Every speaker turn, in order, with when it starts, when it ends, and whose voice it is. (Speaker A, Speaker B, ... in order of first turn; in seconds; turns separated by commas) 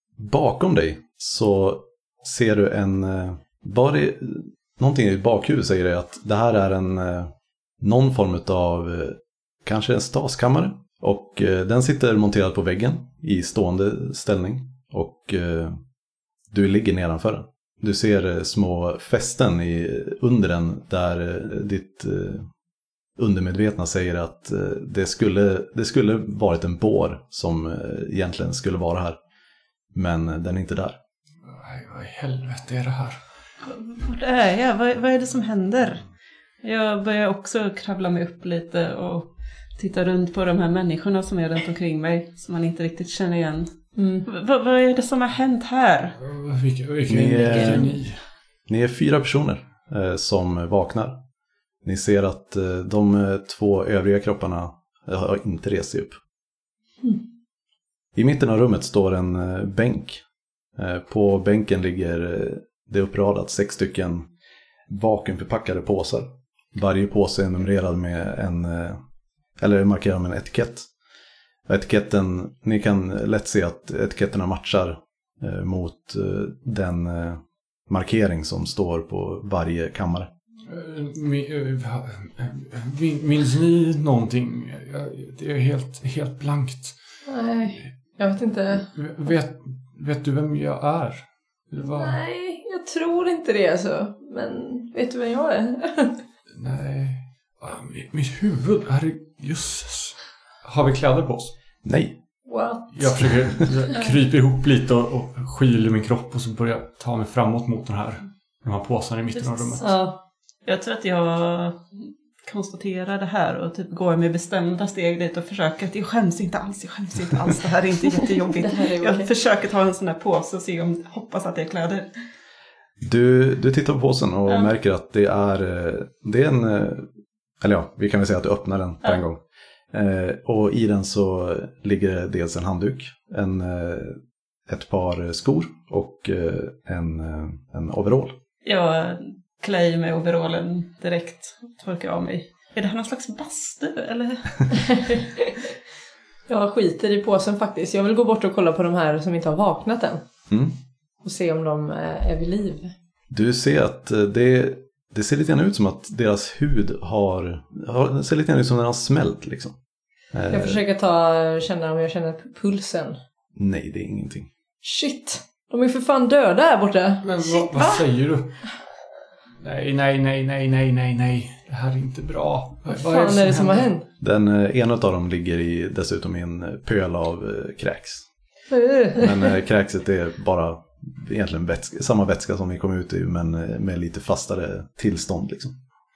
Speaker A: 0.2-15.8, Speaker A: 16.5-22.5, Speaker A: 23.2-29.2, Speaker A: 29.9-31.0, Speaker B: 31.5-33.2, Speaker C: 33.6-36.0, Speaker C: 36.6-43.7, Speaker D: 44.0-44.3, Speaker C: 44.2-46.2, Speaker B: 46.2-48.2, Speaker A: 47.1-47.9, Speaker A: 48.7-51.2, Speaker A: 51.8-56.1, Speaker A: 58.1-60.2, Speaker A: 60.8-64.2, Speaker A: 64.9-69.0, Speaker A: 69.6-70.9, Speaker A: 71.7-80.3, Speaker B: 80.7-87.0, Speaker D: 87.2-88.9, Speaker B: 88.9-92.2, Speaker D: 91.8-96.2, Speaker B: 96.5-101.5, Speaker A: 101.8-102.2, Speaker D: 102.5-102.9, Speaker B: 102.9-109.8, Speaker C: 109.3-109.8, Speaker D: 109.8-110.2, Speaker C: 110.6-111.9, Speaker C: 112.4-122.1, Speaker D: 118.5-119.3, Speaker A: 123.0-127.1, Speaker C: 124.5-124.7, Speaker A: 127.6-129.4, Speaker A: 129.9-138.3, Speaker C: 138.6-145.2, Speaker D: 144.9-145.3, Speaker D: 146.5-150.2, Speaker D: 151.2-152.9, Speaker A: 153.3-159.7, Speaker A: 160.3-160.8, Speaker D: 160.5-163.2, Speaker A: 163.6-164.5, Speaker D: 164.8-167.3, Speaker B: 167.2-168.7, Speaker C: 167.7-168.0, Speaker B: 169.6-173.9, Speaker D: 172.9-174.1, Speaker A: 174.2-178.2, Speaker D: 178.7-179.5, Speaker A: 179.2-185.7